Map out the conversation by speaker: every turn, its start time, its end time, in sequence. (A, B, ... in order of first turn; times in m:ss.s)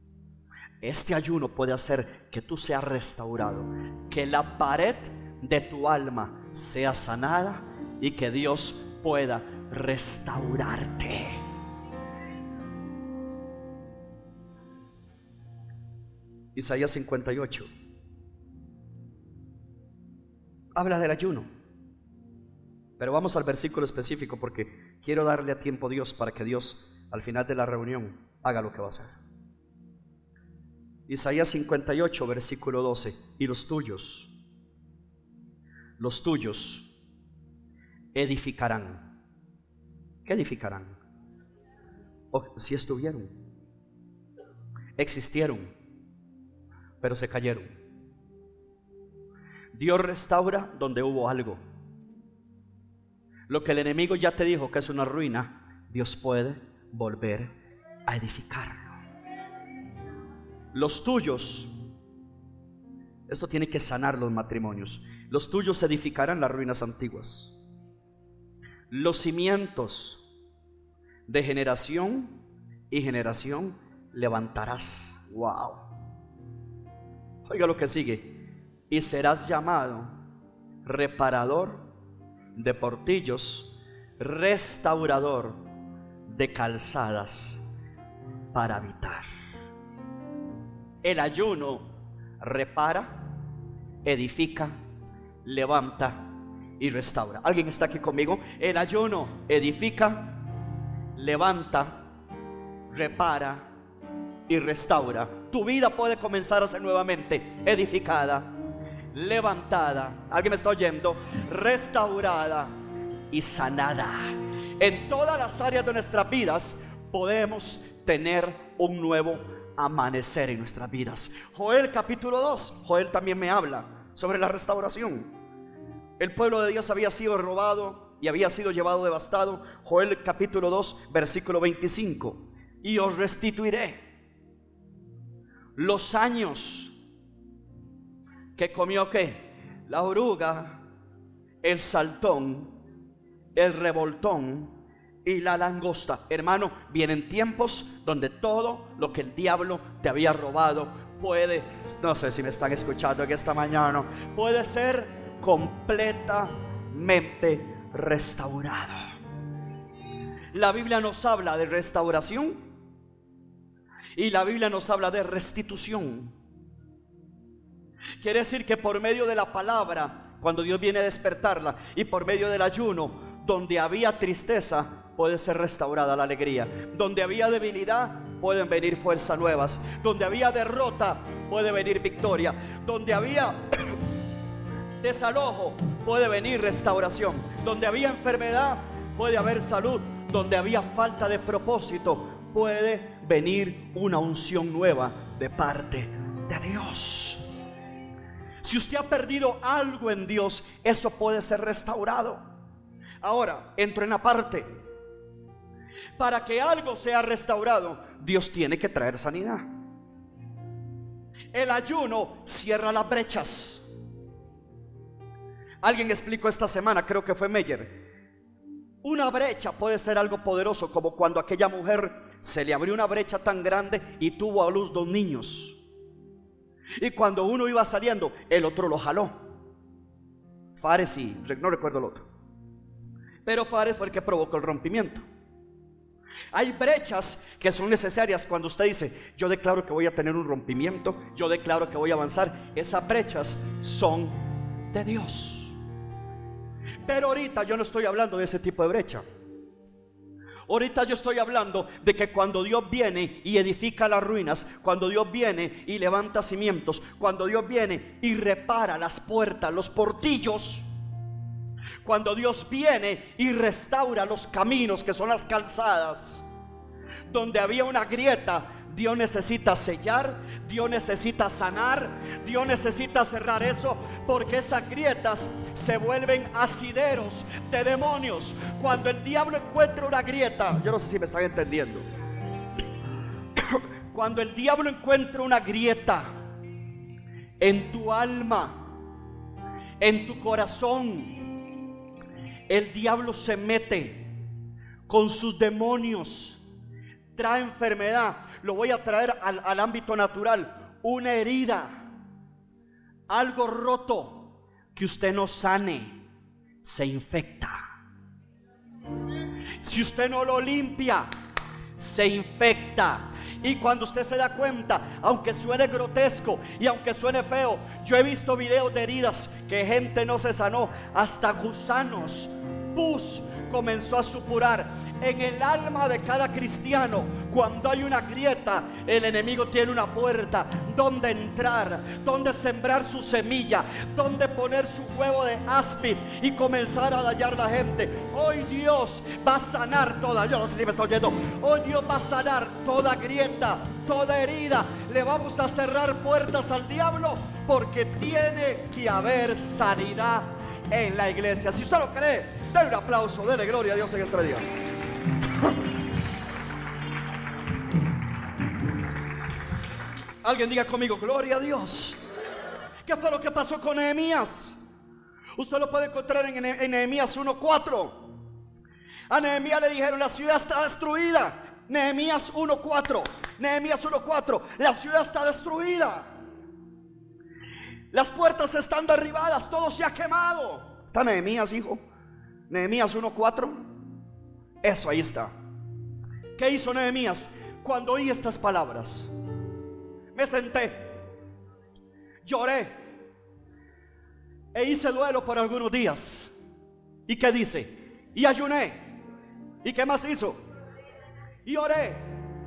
0:00.8-0:11.4 A
0:16.6-0:17.7 A
0:20.8-0:21.5 A
0:23.0-0:29.2 A
0:31.1-0:34.3 A
0:36.0-0:36.9 A
0:38.1-0:39.1 A
0:40.2-0:41.0 A
0:42.3-0:43.4 A
0:45.0-0:45.7 A
0:47.0-0:47.7 A
0:49.7-0:51.6 A
0:53.5-0:57.6 A
0:58.1-0:59.0 A
1:00.7-1:01.7 A
1:03.3-1:07.6 A
1:08.9-1:10.2 A
1:11.3-1:12.4 A
1:12.9-1:15.9 A
1:17.4-1:20.2 A
1:20.8-1:21.9 A
1:22.6-1:25.6 A
1:26.3-1:27.6 A
1:28.5-1:29.3 A
1:31.0-1:31.9 A
1:32.4-1:33.4 A
1:34.0-1:34.8 A
1:35.4-1:36.2 A
1:36.8-1:40.4 A
1:41.2-1:42.0 A
1:42.9-1:43.7 A
1:44.5-1:48.5 A
1:49.1-1:52.7 A
1:53.3-2:05.3 A
2:06.2-2:14.0 A
2:15.8-2:17.0 A
2:18.6-2:20.8 A
2:21.6-2:22.8 A
2:23.6-2:39.0 A
2:40.5-2:42.6 A
2:44.2-2:46.4 A
2:48.2-3:03.6 A
3:05.0-3:17.4 A
3:18.6-3:22.4 A
3:23.2-3:24.7 A
3:26.2-3:29.7 A
3:31.5-3:33.9 A
3:35.8-3:38.0 A
3:39.0-3:45.8 A
3:47.0-3:49.4 A
3:50.8-3:52.3 A
3:53.4-3:55.2 A
3:56.5-4:04.4 A
4:04.9-4:05.8 A
4:07.0-4:09.2 A
4:10.7-4:20.9 A
4:22.0-4:26.4 A
4:27.3-4:42.0 A
4:43.7-4:46.3 A
4:47.6-4:48.9 A
4:50.0-4:51.4 A
4:52.7-4:54.3 A
4:55.1-4:56.6 A
4:57.4-5:02.0 A
5:03.3-5:06.2 A
5:06.8-5:07.8 A
5:09.8-5:11.3 A
5:12.0-5:54.7 A
6:00.4-6:02.2 A
6:03.0-6:04.8 A
6:05.6-6:08.3 A
6:09.3-6:16.3 A
6:18.1-6:22.0 A
6:22.7-6:23.9 A
6:24.8-6:25.5 A
6:26.6-6:29.3 A
6:30.3-6:31.2 A
6:32.4-6:32.9 A
6:34.7-6:36.5 A
6:37.3-6:39.2 A
6:39.8-6:40.6 A
6:41.6-6:42.4 A